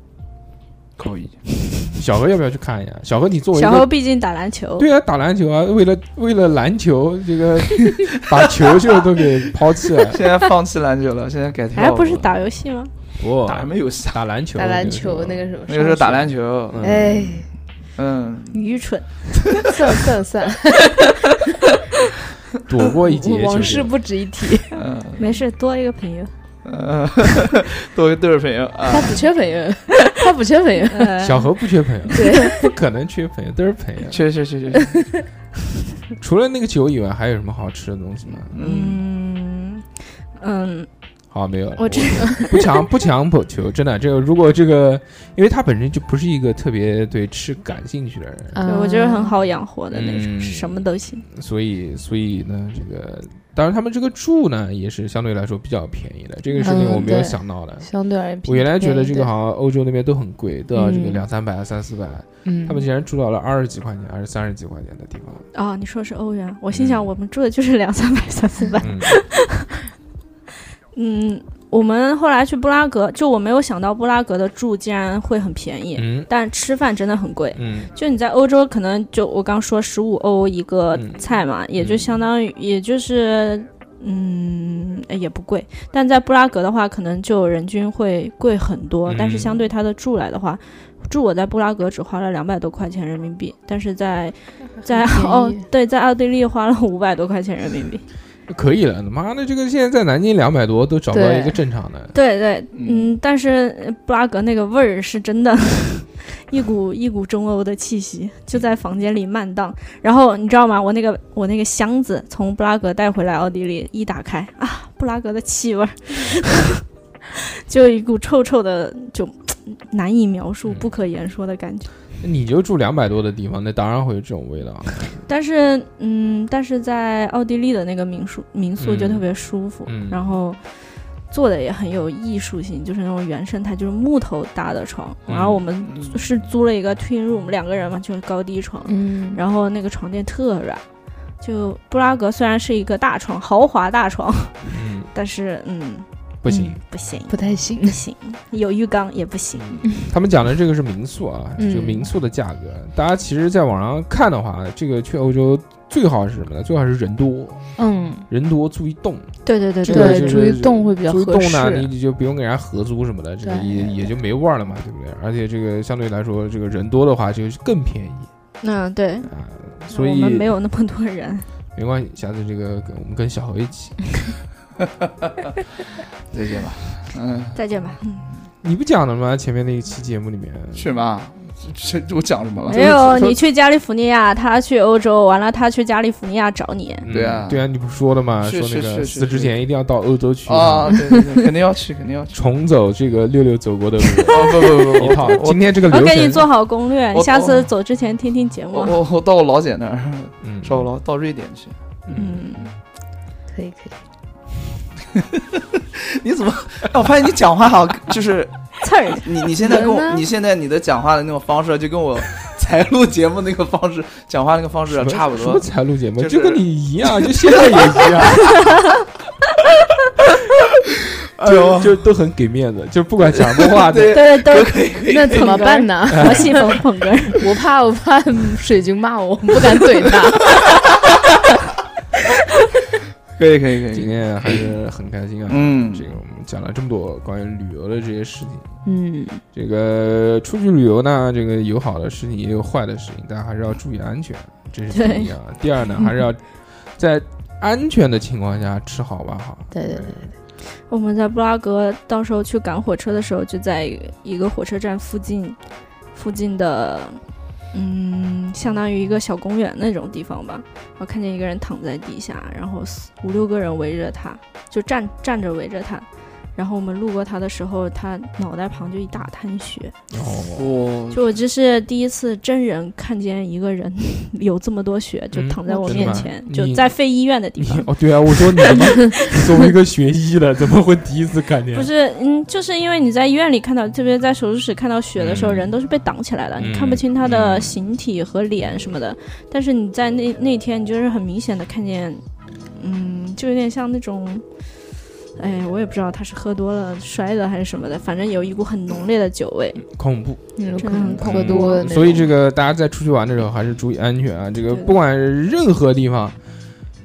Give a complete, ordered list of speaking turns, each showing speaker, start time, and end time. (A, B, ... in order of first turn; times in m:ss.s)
0:01.0-0:01.9 A
0:02.0-0:03.9 B
0:03.5-0:04.9 C
0:04.8-0:10.2 B
0:07.9-0:12.4 A
0:11.7-0:12.9 C
0:13.2-0:15.5 B
0:13.4-0:14.2 A
0:14.6-0:17.5 D
0:15.7-0:16.9 A
0:16.7-0:17.3 B
0:18.0-0:18.6 A
0:18.5-0:19.3 C
0:19.7-0:21.3 D
0:22.7-0:24.0 B
0:23.0-0:24.8 D
0:24.8-0:25.2 A
0:25.2-0:26.3 C
0:26.6-0:29.3 A
0:28.9-0:31.3 D
0:30.9-0:31.5 C
0:31.2-0:34.2 B
0:32.1-0:32.4 C
0:32.1-0:32.7 D
0:34.1-0:35.1 A
0:36.2-0:38.5 B
0:38.3-0:39.0 A
0:38.6-0:39.9 C
0:40.4-0:40.9 C
0:41.3-0:48.6 B
0:41.8-0:42.9 C
0:48.5-0:49.4 D
0:48.7-0:51.3 C
0:49.9-0:57.9 B
0:56.6-0:56.9 C
0:56.6-0:59.3 D
0:58.4-1:05.5 B
1:00.8-1:01.2 D
1:02.4-1:02.8 D
1:05.5-1:09.7 C
1:06.7-1:07.1 B
1:08.8-1:09.1 B
1:10.9-1:38.0 C
1:16.0-1:16.3 B
1:17.6-1:17.9 B
1:20.9-1:21.2 B
1:21.8-1:22.1 B
1:29.1-1:29.6 B
1:34.9-1:35.7 D
1:38.5-1:42.1 B
1:41.1-1:41.6 D
1:42.1-2:01.9 C
1:42.7-1:43.2 A
2:02.2-2:05.2 B
2:05.3-2:20.8 C
2:08.8-2:09.2 B
2:09.9-2:10.2 B
2:15.3-2:15.6 B
2:15.8-2:16.2 A
2:18.9-2:19.4 D
2:21.4-2:29.9 C
2:24.7-2:25.1 B
2:26.4-2:26.8 B
2:27.3-2:28.0 D
2:30.1-2:37.8 B
2:31.6-2:32.1 D
2:37.8-2:38.3 D
2:38.3-2:48.3 B
2:39.5-2:40.5 C
2:39.9-2:41.9 D
2:43.4-2:44.0 D
2:48.6-2:49.3 C
2:49.3-2:50.5 B
2:49.9-2:51.5 C
2:51.8-2:54.4 B
2:56.3-2:57.6 A
2:57.6-2:58.3 C
2:58.6-3:00.9 B
3:00.8-3:03.1 A
3:02.7-3:07.0 C
3:02.7-3:03.4 B
3:07.0-3:11.0 B
3:07.1-3:07.7 A
3:08.4-3:09.6 A
3:10.5-3:12.4 A
3:12.3-3:16.5 B
3:14.3-3:15.8 A
3:15.9-3:19.0 C
3:17.1-3:17.7 A
3:18.7-3:21.8 A
3:20.4-3:20.9 B
3:22.1-3:22.7 B
3:22.1-3:22.7 C
3:23.5-3:24.0 D
3:25.4-3:36.6 A
3:28.8-3:29.8 C
3:29.6-3:30.2 D
3:34.9-3:38.6 B
3:37.3-3:38.4 A
3:41.4-3:42.0 A
3:41.4-3:44.2 B
3:43.3-3:45.7 A
3:44.1-3:47.5 C
3:45.1-3:46.8 D
3:46.1-3:46.7 B
3:47.3-3:50.7 D
3:53.4-3:54.7 A
3:53.9-3:58.7 B
3:55.5-3:56.1 A
3:58.8-3:59.4 D
3:59.5-4:10.3 B
4:04.9-4:05.3 C
4:09.7-4:10.3 D
4:10.9-4:15.6 C
4:16.1-4:30.0 C
4:30.1-4:30.8 B
4:30.6-4:31.4 A
4:31.1-4:39.5 C
4:35.3-4:36.9 B
4:35.7-4:36.3 D
4:37.6-4:41.9 B
4:41.7-4:52.2 C
4:45.2-4:45.7 B
4:46.6-4:47.8 B
4:52.8-4:54.8 C
4:55.4-4:59.9 C
4:59.9-5:06.4 B
5:00.6-5:02.2 D
5:00.8-5:02.3 C